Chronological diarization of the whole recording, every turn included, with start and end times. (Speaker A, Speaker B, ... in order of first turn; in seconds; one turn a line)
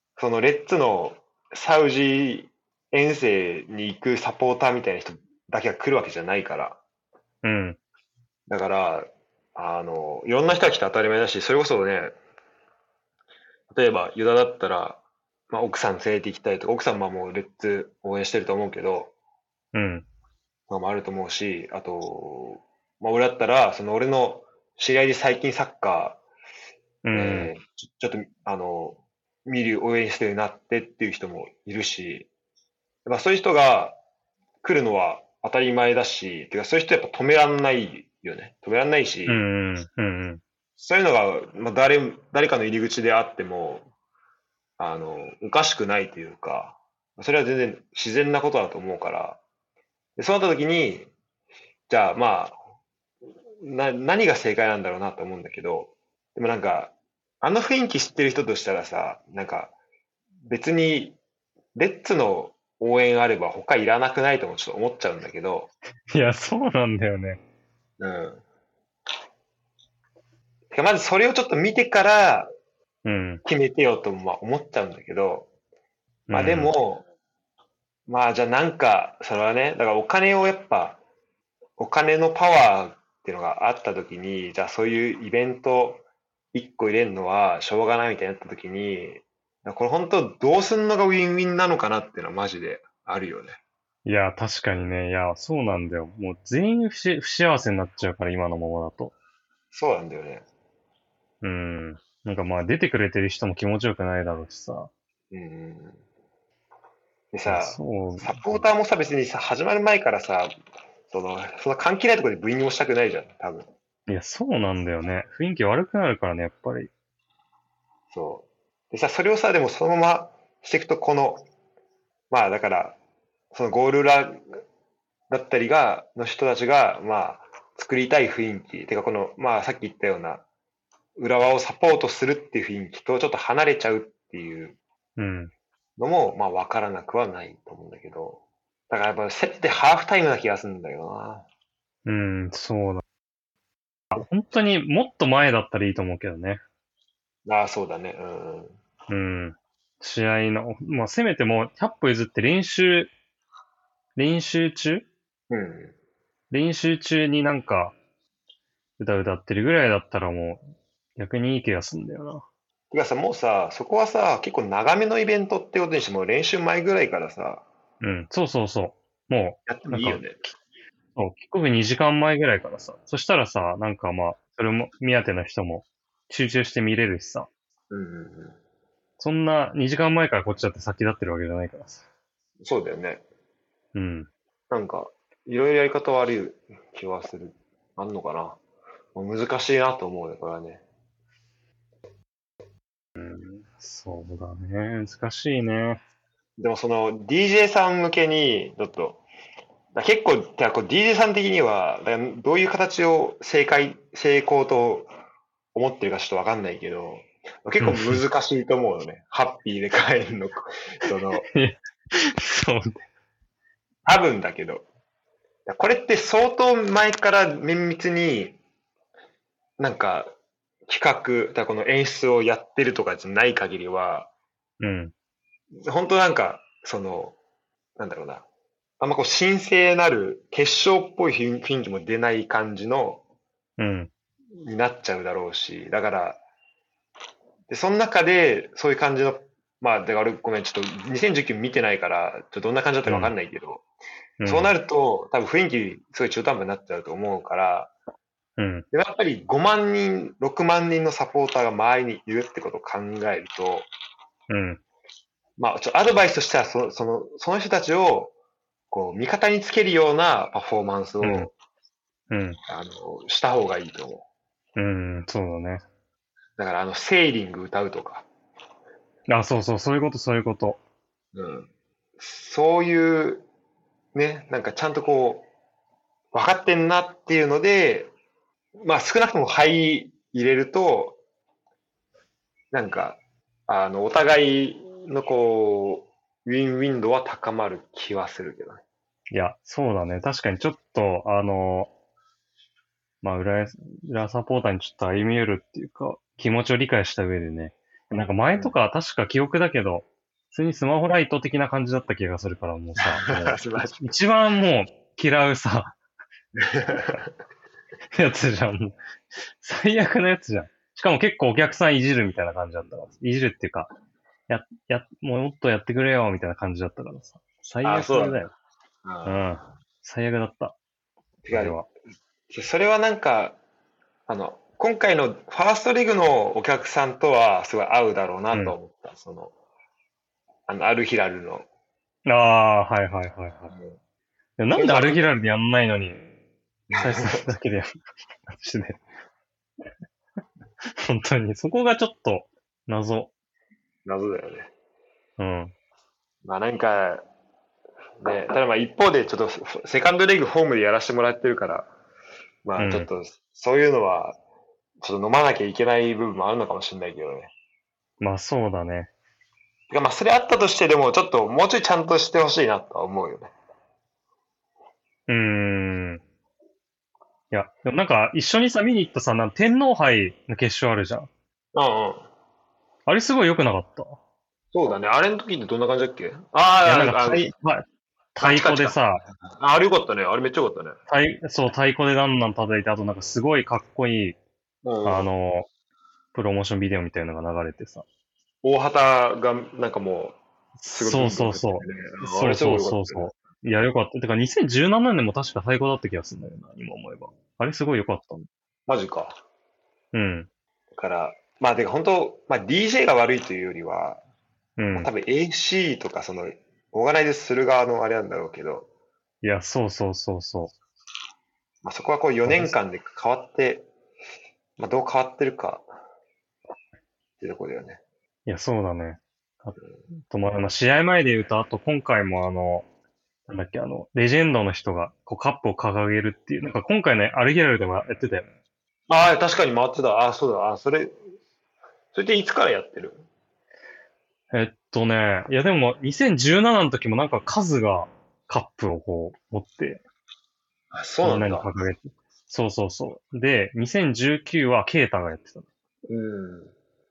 Speaker A: 0.2-6.8
Speaker B: 7.4-7.8
Speaker A: 8.5-12.1
Speaker A: 13.7-19.1
Speaker B: 19.7-20.1
Speaker A: 20.7-26.2
Speaker B: 27.0-27.5
Speaker A: 27.1-32.3
Speaker A: 33.1-34.0
Speaker A: 34.6-39.4
Speaker B: 39.3-40.4
Speaker A: 40.8-43.9
Speaker A: 44.8-49.4
Speaker A: 50.2-51.1
Speaker A: 51.9-52.6
Speaker A: 53.6-59.8
Speaker A: 60.5-61.2
Speaker A: 61.8-65.7
Speaker B: 66.1-67.4
Speaker A: 68.0-68.4
Speaker A: 70.7-72.5
Speaker B: 73.0-73.4
Speaker A: 73.5-75.5
Speaker B: 76.3-76.7
Speaker A: 76.3-77.1
Speaker A: 78.1-81.0
Speaker A: 81.8-86.0
Speaker A: 86.5-93.6
Speaker B: 94.0-99.1
Speaker A: 99.7-100.5
Speaker B: 101.4-104.9
Speaker A: 105.3-106.0
Speaker A: 107.3-110.5
Speaker B: 107.5-108.6
Speaker A: 111.1-113.7
Speaker B: 114.1-116.9
Speaker A: 118.1-121.5
Speaker A: 122.3-123.0
Speaker A: 123.5-124.4
Speaker A: 125.3-130.4
Speaker A: 131.2-134.8
Speaker B: 135.2-135.5
Speaker A: 136.0-141.5
Speaker B: 142.1-143.0
Speaker B: 144.1-146.6
Speaker A: 147.5-148.8
Speaker B: 149.1-153.1
Speaker B: 154.2-155.1
Speaker A: 155.5-155.9
Speaker B: 156.5-157.9
Speaker B: 159.0-160.6
Speaker B: 161.2-162.4
Speaker A: 162.9-167.6
Speaker B: 168.0-170.5
Speaker A: 169.7-170.4
Speaker B: 171.2-177.5
Speaker A: 177.9-178.6
Speaker B: 179.2-182.0
Speaker A: 182.6-183.2
Speaker B: 183.9-184.3
Speaker A: 184.7-188.6
Speaker A: 189.2-190.8
Speaker B: 193.2-196.0
Speaker A: 196.6-199.2
Speaker A: 199.9-205.1
Speaker A: 205.8-211.5
Speaker B: 207.8-208.2
Speaker B: 211.5-213.0
Speaker A: 214.1-214.8
Speaker A: 215.7-218.6
Speaker A: 219.8-220.3
Speaker A: 220.9-224.3
Speaker B: 224.8-225.1
Speaker A: 225.8-227.4
Speaker A: 228.0-228.5
Speaker A: 229.0-233.2
Speaker B: 233.8-234.1
Speaker A: 234.6-236.4
Speaker A: 237.7-243.8
Speaker B: 243.1-243.3
Speaker B: 244.4-244.7
Speaker A: 244.4-247.9
Speaker B: 248.6-248.9
Speaker A: 248.9-253.9
Speaker B: 254.5-254.8
Speaker A: 255.6-258.3
Speaker A: 258.9-261.5
Speaker B: 261.2-261.5
Speaker B: 262.3-262.6
Speaker A: 262.7-264.2
Speaker B: 264.8-265.8
Speaker A: 266.6-268.3
Speaker B: 269.3-270.8
Speaker A: 271.4-273.4
Speaker A: 274.1-275.5
Speaker A: 276.3-278.1
Speaker A: 278.8-281.2
Speaker A: 282.7-288.8
Speaker B: 289.3-291.9
Speaker B: 293.2-305.9
Speaker A: 303.0-304.1
Speaker A: 306.6-307.3
Speaker B: 308.1-309.0
Speaker B: 309.6-313.9
Speaker B: 314.5-318.5
Speaker A: 317.8-318.5
Speaker A: 319.1-319.5
Speaker B: 319.3-320.8
Speaker A: 321.4-321.8
Speaker B: 321.5-321.9
Speaker A: 322.5-323.6
Speaker A: 324.3-329.5
Speaker A: 330.7-331.7
Speaker B: 332.3-333.7
Speaker A: 333.7-334.0
Speaker B: 334.6-336.2
Speaker A: 334.7-335.2
Speaker A: 336.9-337.5
Speaker B: 337.0-337.9
Speaker B: 338.5-339.0
Speaker B: 341.0-343.3
Speaker A: 344.1-344.7
Speaker B: 345.4-345.7
Speaker A: 346.4-347.2
Speaker A: 348.2-351.9
Speaker A: 352.6-354.4
Speaker B: 352.8-353.1
Speaker A: 355.0-357.5
Speaker B: 358.2-359.1
Speaker A: 359.9-363.5
Speaker B: 365.3-366.2
Speaker B: 367.5-371.3
Speaker A: 371.8-372.3
Speaker B: 373.1-374.2
Speaker A: 374.7-377.5
Speaker B: 376.9-377.8
Speaker B: 378.4-379.2
Speaker A: 378.4-381.0
Speaker B: 381.1-384.4
Speaker A: 384.8-385.3
Speaker B: 385.0-385.7
Speaker B: 386.3-388.1
Speaker A: 388.6-390.4
Speaker B: 390.8-398.5
Speaker A: 390.9-393.3
Speaker A: 398.9-399.4
Speaker B: 400.1-400.5
Speaker A: 401.0-404.2
Speaker B: 404.8-405.1
Speaker A: 404.9-408.9
Speaker B: 409.4-410.7
Speaker A: 411.8-413.9
Speaker B: 412.5-412.8
Speaker A: 414.8-415.9
Speaker A: 417.4-418.0
Speaker B: 418.5-419.8
Speaker B: 420.3-422.9
Speaker B: 423.5-428.5
Speaker A: 429.1-431.2
Speaker A: 432.1-433.2
Speaker B: 434.5-440.0
Speaker A: 440.9-441.7
Speaker B: 441.2-445.7
Speaker A: 446.1-446.7